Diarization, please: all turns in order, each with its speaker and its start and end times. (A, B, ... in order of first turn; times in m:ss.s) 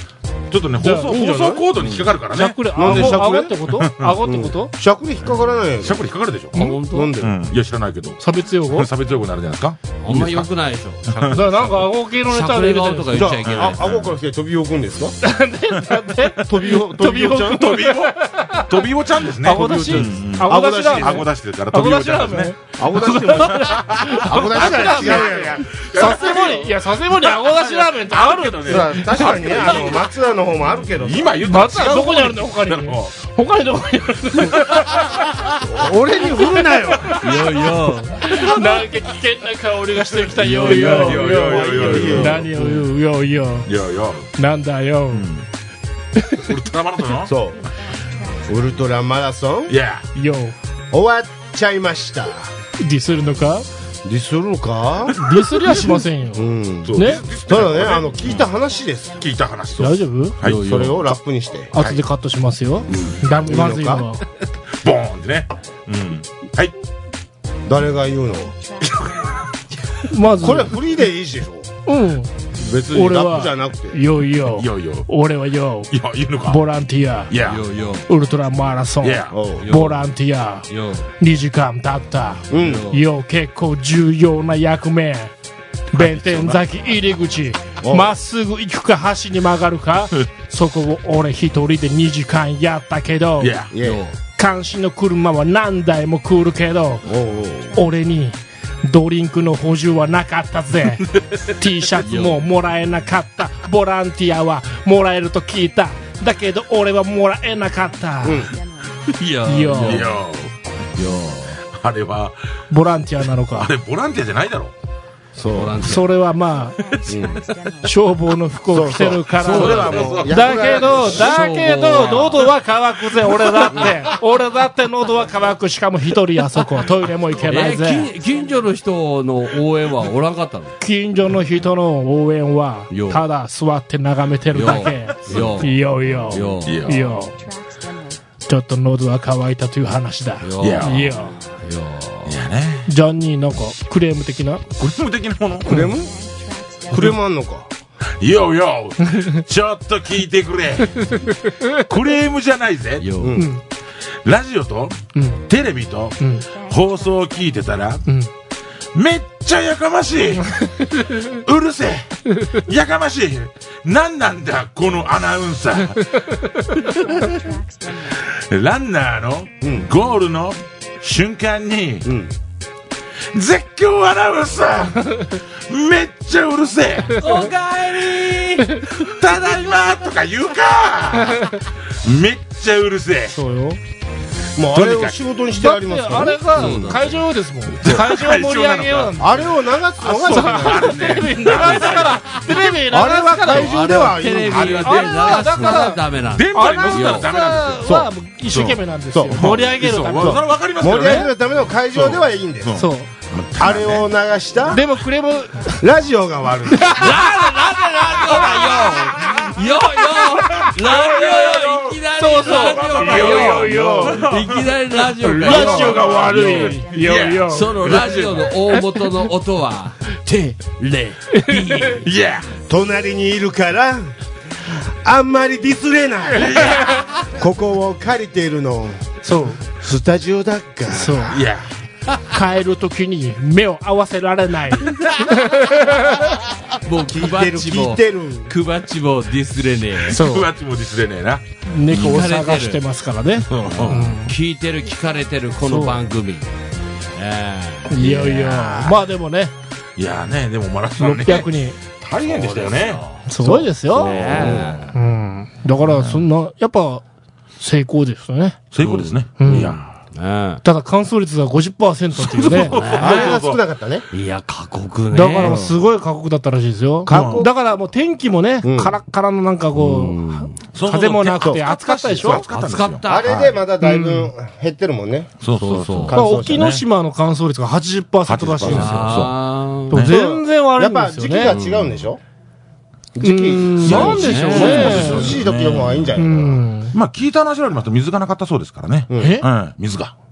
0:00.5-0:04.1 A
0:00.8-0:01.3 B
0:01.1-0:02.0 C
0:02.3-0:04.7 B
0:02.8-0:03.6 C
0:04.2-0:06.0 C
0:05.8-0:10.5 A
0:06.5-0:07.1 D
0:06.6-0:07.1 B
0:06.8-0:07.4 C
0:08.2-0:08.9 B
0:10.0-0:13.8 D
0:11.1-0:11.4 A
0:11.3-0:13.3 B
0:13.1-0:15.2 C
0:13.4-0:14.2 A
0:15.2-0:18.7 B
0:16.5-0:17.8 C
0:17.5-0:22.5 A
0:19.4-0:29.6 B
0:19.6-0:21.3 C
0:22.8-0:25.8 C
0:23.5-0:30.1 A
0:28.7-0:31.4 C
0:30.9-0:33.2 A
0:31.4-0:35.2 B
0:34.4-0:35.6 A
0:35.6-0:37.2 C
0:36.5-0:37.6 B
0:37.2-0:38.5 D
0:38.2-0:43.7 B
0:40.4-0:42.9 D
0:40.6-0:42.5 A
0:41.2-0:42.5 C
0:43.6-0:44.3 A
0:44.4-0:45.3 B
0:45.1-0:45.4 A
0:46.2-0:46.4 B
0:46.4-0:47.3 A
0:47.2-0:47.7 C
0:48.0-0:48.7 E
0:48.5-0:49.8 C
0:49.7-0:50.1 A
0:50.2-0:50.6 B
0:50.9-0:52.5 C
0:52.8-0:53.7 B
0:54.0-0:55.2 C
0:55.2-0:57.2 B
0:55.2-0:56.0 A
0:56.3-0:59.2 C
0:56.8-0:58.5 A
0:58.3-0:59.0 E
0:59.2-1:00.8 A
0:59.8-1:00.4 B
1:00.4-1:01.1 D
1:00.5-1:01.8 C
1:01.7-1:04.2 B
1:02.9-1:04.1 C
1:04.8-1:06.7 A
1:07.7-1:08.5 C
1:08.6-1:09.5 E
1:10.1-1:10.8 B
1:10.4-1:11.7 C
1:11.9-1:12.3 B
1:12.6-1:14.0 C
1:12.9-1:15.9 B
1:14.5-1:15.1 A
1:15.9-1:16.6 A
1:16.5-1:17.3 B
1:17.3-1:17.6 A
1:17.4-1:18.1 D
1:18.1-1:20.7 B
1:19.0-1:19.4 A
1:19.3-1:19.7 C
1:19.6-1:20.1 D
1:20.7-1:21.1 D
1:21.2-1:25.3 B
1:22.5-1:22.9 C
1:22.5-1:23.0 D
1:25.9-1:33.6 B
1:25.9-1:26.6 A
1:27.8-1:28.2 C
1:33.4-1:33.7 A
1:33.7-1:34.0 C
1:33.8-1:34.2 D
1:34.4-1:37.1 B
1:37.0-1:37.8 C
1:37.8-1:48.5 B
1:41.1-1:41.4 A
1:42.0-1:42.4 D
1:48.2-1:48.5 C
1:48.4-1:49.0 E
1:49.1-1:50.2 D
1:49.4-1:50.1 B
1:49.8-1:50.5 A
1:51.0-1:51.6 D
1:51.6-1:52.4 A
1:52.7-1:53.7 B
1:53.5-1:54.7 A
1:55.4-1:55.8 C
1:55.5-1:56.1 D
1:55.8-1:56.9 B
1:56.4-1:58.1 E
1:57.1-1:57.5 C
1:57.8-2:08.1 B
1:58.7-2:01.3 C
1:59.4-2:00.2 D
1:59.5-2:01.1 A
2:01.0-2:02.5 D
2:07.4-2:10.7 D
2:07.8-2:08.6 E
2:10.8-2:17.4 B
2:12.9-2:13.2 D
2:14.5-2:16.9 D
2:15.3-2:15.6 A
2:16.6-2:17.1 A
2:16.9-2:18.2 E
2:18.5-2:21.4 B
2:20.4-2:22.4 D
2:20.6-2:21.1 A
2:22.3-2:22.9 A
2:22.9-2:24.7 B
2:24.8-2:25.9 A
2:25.7-2:26.1 C
2:25.8-2:27.1 E
2:26.9-2:27.7 C
2:26.9-2:27.2 A
2:28.2-2:31.1 A
2:31.0-2:31.8 B
2:31.8-2:33.1 A
2:33.0-2:33.5 D
2:33.2-2:33.5 C
2:33.4-2:33.6 B
2:34.2-2:38.1 A
2:35.2-2:35.4 B
2:36.2-2:36.5 B
2:36.5-2:37.6 E
2:39.0-2:40.5 A
2:40.4-2:41.4 B
2:41.2-2:52.1 A
2:47.1-2:48.2 E
2:49.6-2:49.9 C
2:52.0-2:52.3 C
2:53.3-2:57.2 A
2:57.2-2:58.7 D
2:58.8-3:03.4 A
3:03.3-3:03.8 B
3:04.6-3:06.6 C
3:04.7-3:05.2 A
3:05.6-3:09.5 B
3:06.5-3:07.2 D
3:07.8-3:09.3 A
3:09.2-3:11.1 C
3:10.0-3:12.4 A
3:10.2-3:13.8 B
3:12.9-3:14.8 C
3:13.5-3:17.3 D
3:14.4-3:18.8 A
3:14.8-3:16.0 B
3:16.5-3:21.3 B
3:19.1-3:19.6 C
3:19.4-3:21.3 A
3:20.1-3:22.8 C
3:21.9-3:24.1 A
3:22.8-3:23.1 B
3:23.6-3:24.8 C
3:24.7-3:25.8 B
3:25.8-3:27.1 C
3:26.7-3:29.0 B
3:27.0-3:36.8 D
3:28.3-3:29.5 A
3:30.1-3:38.5 A
3:32.2-3:34.2 B
3:33.4-3:34.3 C
3:35.3-3:38.1 B
3:37.5-3:42.1 D
3:41.3-3:42.0 B
3:42.0-3:42.5 A
3:42.7-3:44.2 C
3:44.7-3:49.1 C
3:46.4-3:47.0 A
3:49.2-3:49.6 B
3:49.8-3:51.4 C
3:50.9-3:51.4 B
3:51.3-3:51.7 A
3:52.3-3:56.4 B
3:56.8-4:00.2 D
3:57.0-3:58.5 C
4:00.1-4:00.5 B
4:00.1-4:01.4 A
4:01.7-4:04.4 B
4:01.9-4:02.8 D
4:03.5-4:04.1 A
4:03.6-4:06.5 D
4:05.6-4:06.0 B
4:07.2-4:08.3 D
4:07.9-4:09.5 B
4:08.0-4:09.0 A
4:10.0-4:13.0 A
4:11.0-4:11.8 B
4:12.2-4:13.3 D
4:13.3-4:17.0 B
4:13.4-4:14.8 C
4:13.9-4:14.8 D
4:14.0-4:15.0 A
4:15.8-4:16.2 A
4:17.6-4:18.6 B
4:18.7-4:20.0 A
4:18.8-4:20.6 D
4:19.4-4:19.7 B
4:20.6-4:22.8 B
4:22.2-4:23.6 A
4:22.6-4:23.4 D
4:23.0-4:24.0 C
4:24.1-4:25.6 D
4:25.1-4:32.4 B
4:25.4-4:25.8 C
4:27.1-4:27.5 C
4:27.1-4:27.5 A
4:28.6-4:29.0 C
4:29.7-4:30.5 D
4:30.7-4:33.6 A
4:32.2-4:33.5 D
4:33.1-4:36.7 C
4:33.8-4:34.3 B
4:35.4-4:36.8 A
4:35.5-4:36.2 D
4:36.1-4:39.3 B
4:38.3-4:39.3 A
4:38.6-4:40.0 D
4:39.9-4:41.6 B
4:40.1-4:42.2 C
4:41.5-4:42.0 D
4:43.2-4:46.6 C
4:43.2-4:45.4 B
4:43.8-4:46.2 A
4:43.9-4:45.2 D
4:46.2-4:46.9 B
4:46.9-4:50.1 A
4:49.1-4:49.4 C
4:49.2-4:49.5 B